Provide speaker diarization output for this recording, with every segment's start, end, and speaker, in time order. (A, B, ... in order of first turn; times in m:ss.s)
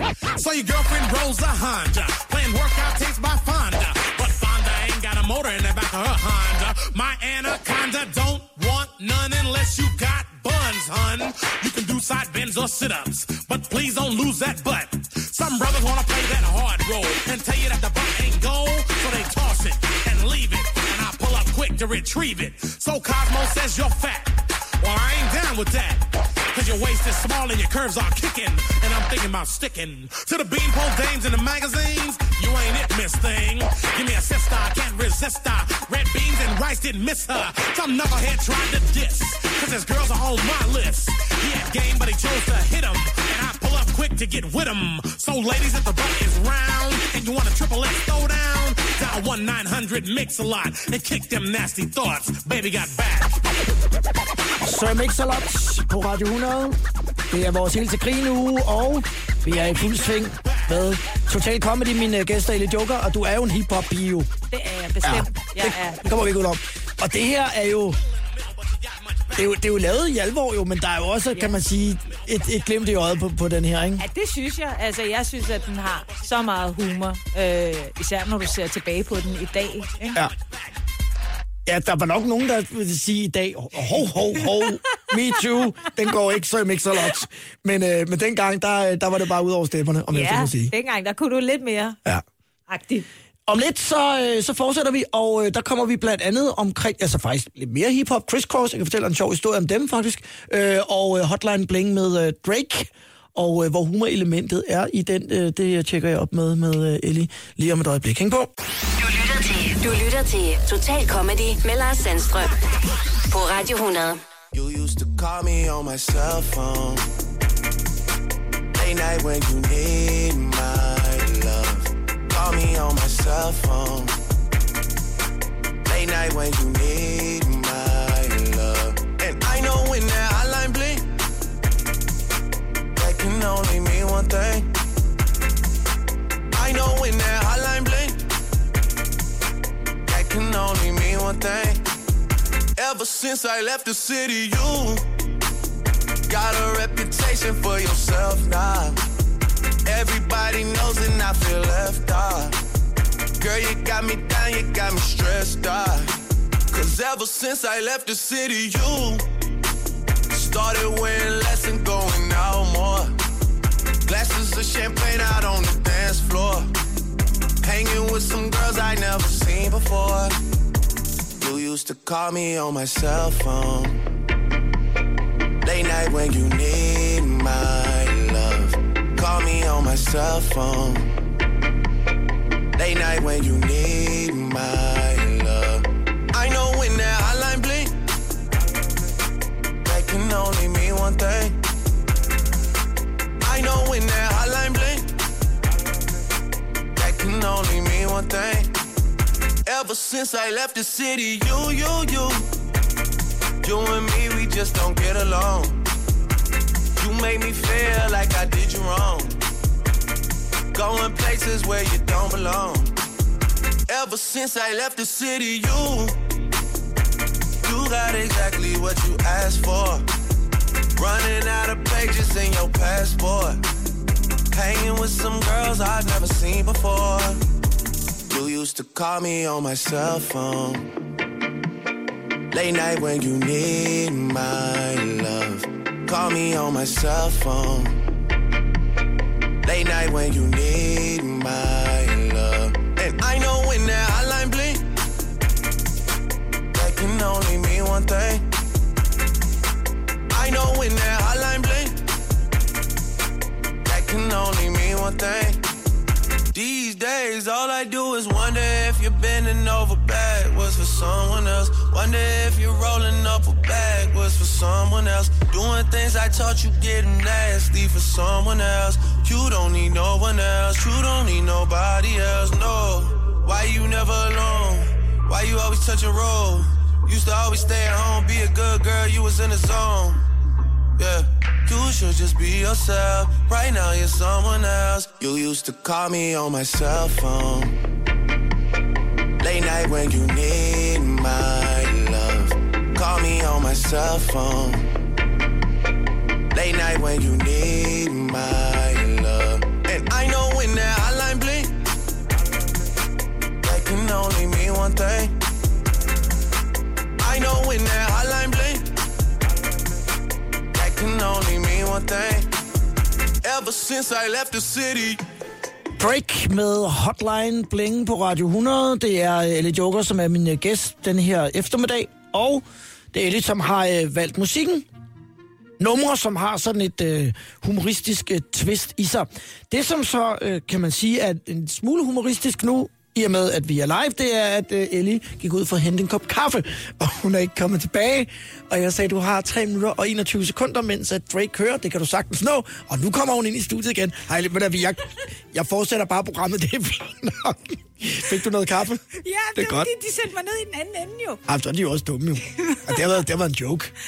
0:00.3-0:53.4 A
0:54.6-0:56.8 B
0:57.3-1:04.3 B
0:59.8-1:00.6 A
1:04.5-1:06.0 C
1:05.0-1:08.0 B
1:08.6-1:09.4 A
1:09.4-1:14.0 B
1:11.3-1:11.6 C
1:14.0-1:20.2 C
1:21.7-1:30.7 B
1:30.1-1:32.0 C
1:32.7-1:33.1 C
1:33.5-1:48.5 B
1:49.0-1:52.6 D
1:53.3-1:54.2 D
1:54.5-1:57.0 E
1:58.8-2:04.2 E
2:05.8-2:11.0 E
2:13.0-2:14.7 E
2:16.5-2:18.2 E
2:20.1-2:21.8 E
2:22.8-2:25.0 E
2:26.3-2:29.0 E
2:29.8-2:32.6 E
2:33.4-2:36.2 E
2:36.7-2:39.2 E
2:40.3-2:43.1 E
2:44.1-2:46.7 E
2:47.6-2:50.4 E
2:51.4-2:54.0 E
2:55.6-3:01.1 E
3:02.8-3:07.9 E
3:09.8-3:11.6 E
3:13.4-3:15.1 E
3:17.0-3:18.7 E
3:19.7-3:22.5 E
3:23.6-3:25.8 E
3:27.0-3:29.4 E
3:30.7-3:32.9 E
3:33.9-3:36.2 E
3:37.6-3:40.0 E
3:41.0-3:43.6 E
3:44.5-3:47.4 E
3:48.3-3:50.9 E
3:52.5-3:58.0 E
3:59.6-4:04.8 E
4:06.7-4:08.4 E
4:10.3-4:12.0 E
4:13.8-4:15.6 E
4:16.5-4:40.2 E
4:41.0-4:47.8 E
4:49.4-4:54.9 E
4:56.5-5:01.7 E
5:03.6-5:05.3 E
5:07.2-5:08.9 E
5:10.7-5:12.5 E
5:13.4-5:15.2 E
5:16.0-5:24.9 B
5:25.8-5:49.9 B
5:49.2-5:51.4 C
5:51.5-5:53.9 B
5:52.5-5:53.1 C